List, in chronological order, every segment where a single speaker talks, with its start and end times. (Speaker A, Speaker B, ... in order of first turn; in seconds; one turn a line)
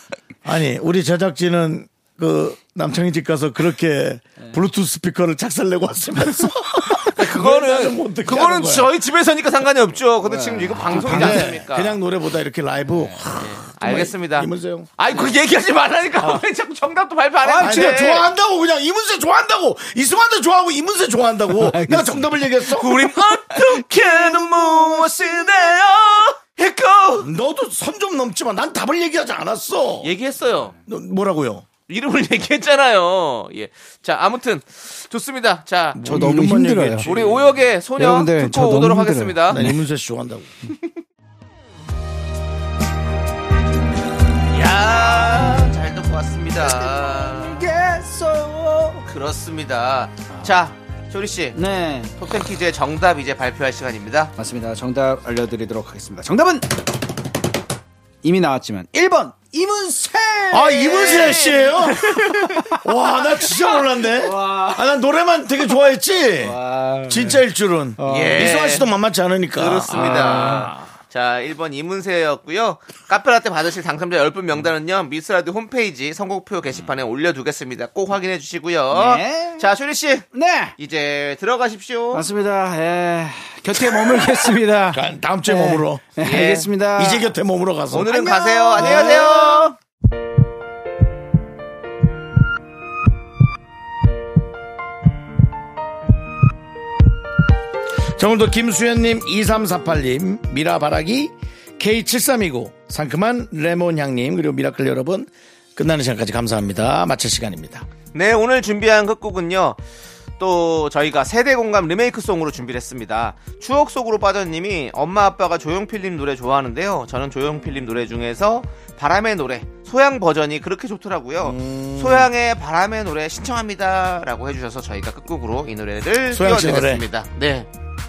Speaker A: 0.5-8.9
Speaker B: 7.1-12.0
Speaker C: 10.2-11.6
Speaker A: 10.9-14.9
Speaker C: 12.9-13.3
Speaker B: 13.4-18.2
Speaker C: 17.4-18.1
Speaker A: 17.6-23.1
Speaker C: 21.5-25.3
Speaker B: 22.7-27.3
Speaker A: 27.2-30.1
Speaker B: 30.0-30.8
Speaker A: 30.9-31.7
Speaker B: 31.9-36.2
Speaker A: 36.0-37.4
Speaker C: 36.0-37.1
Speaker B: 37.0-39.7
Speaker C: 38.0-39.8
Speaker A: 39.5-40.5
Speaker B: 44.5-47.7
Speaker C: 46.6-49.0
Speaker B: 49.0-51.6
Speaker C: 51.5-52.1
Speaker B: 52.1-54.3
Speaker C: 54.4-56.7
Speaker C: 58.2-61.5
Speaker A: 60.5-70.7
Speaker B: 60.9-62.4
Speaker C: 62.2-62.8
Speaker C: 63.3-64.9
Speaker C: 66.4-67.4
Speaker C: 68.0-68.5
Speaker B: 68.1-68.9
Speaker B: 69.5-82.2
Speaker C: 69.9-70.8
Speaker C: 78.9-79.7
Speaker C: 80.3-80.7
Speaker C: 82.1-87.3
Speaker A: 84.0-84.4
Speaker A: 84.9-86.1
Speaker B: 86.2-86.7
Speaker A: 87.0-88.2
Speaker B: 87.9-89.8
Speaker C: 88.1-89.7
Speaker A: 98.2-107.9
Speaker B: 108.1-109.8
Speaker B: 110.4-127.7
Speaker A: 121.4-122.3
Speaker A: 126.3-127.0